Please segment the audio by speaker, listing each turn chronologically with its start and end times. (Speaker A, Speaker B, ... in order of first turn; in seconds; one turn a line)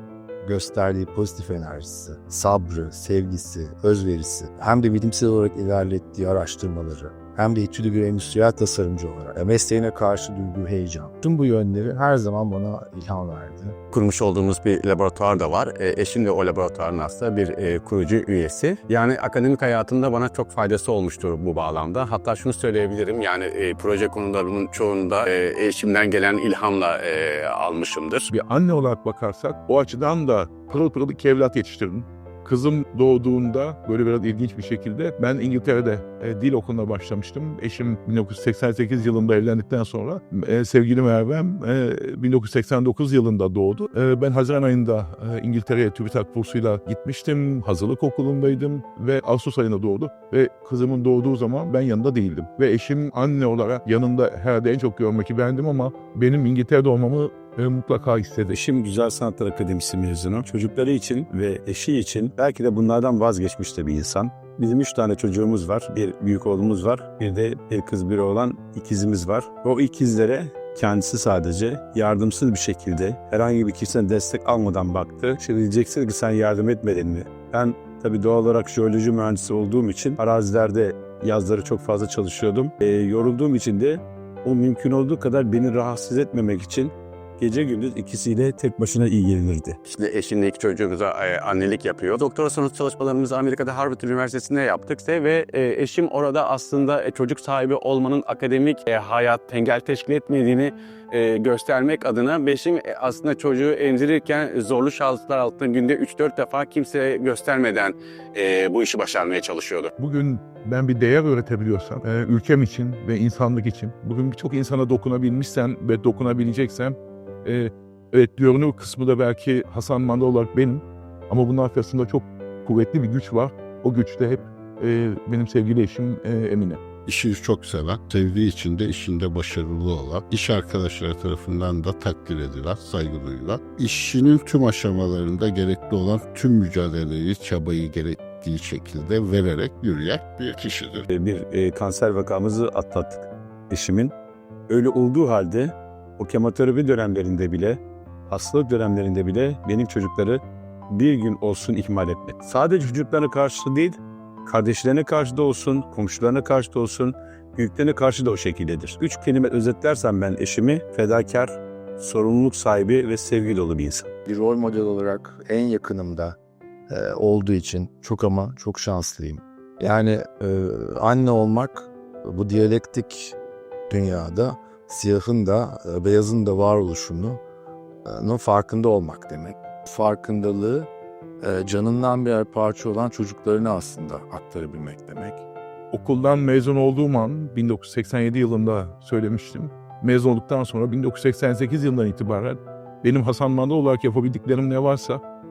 Speaker A: 0.4-13.8
Speaker B: 13.9-28.3
Speaker C: 28.3-58.5
Speaker D: 58.5-89.8
Speaker B: 89.9-109.9
Speaker C: 110.0-126.8
Speaker E: 127.0-141.1
Speaker D: 141.1-144.1
Speaker D: 144.7-164.1
Speaker A: 164.3-166.4
Speaker A: 166.9-173.3
Speaker A: 173.9-177.4
Speaker A: 178.1-180.9
Speaker A: 181.4-185.4
Speaker C: 185.9-195.2